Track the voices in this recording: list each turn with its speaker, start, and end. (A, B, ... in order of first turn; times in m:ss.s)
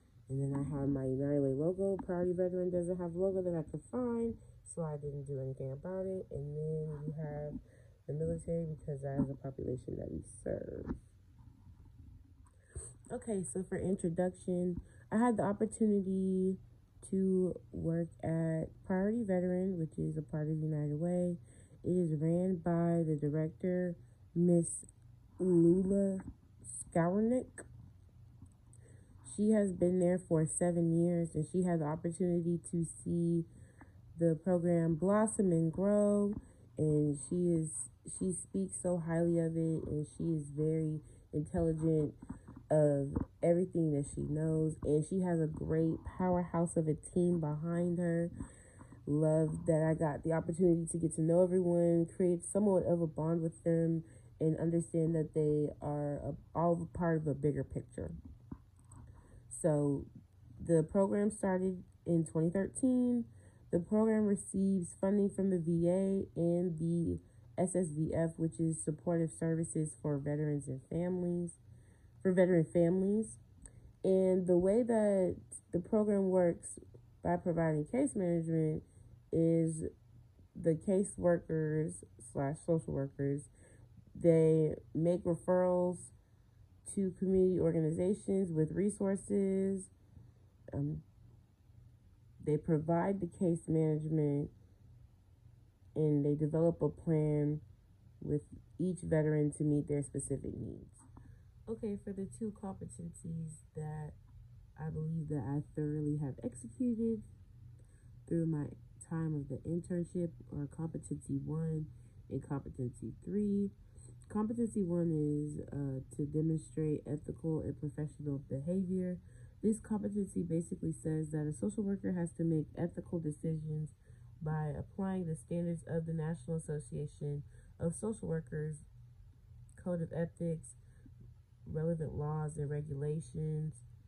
0:00.3-0:11.0 A
0:13.1-0:27.6 A
0:29.2-0:33.5 A
0:34.2-0:42.2 A
0:42.7-0:48.3 A
0:49.1-0:58.2 A
0:59.5-1:00.1 A
1:00.6-1:11.6 A
1:12.2-1:13.4 A
1:14.0-1:19.9 A
1:20.6-1:23.5 A
1:24.2-1:26.1 A
1:26.8-1:29.9 A
1:30.7-1:31.0 A
1:32.4-1:34.5 A
1:36.0-1:37.6 A
1:38.2-1:41.0 A
1:41.7-1:44.2 A
1:44.8-1:47.3 A
1:48.3-1:53.7 A
1:54.3-2:08.9 A
2:09.8-2:10.8 A
2:11.7-2:13.8 A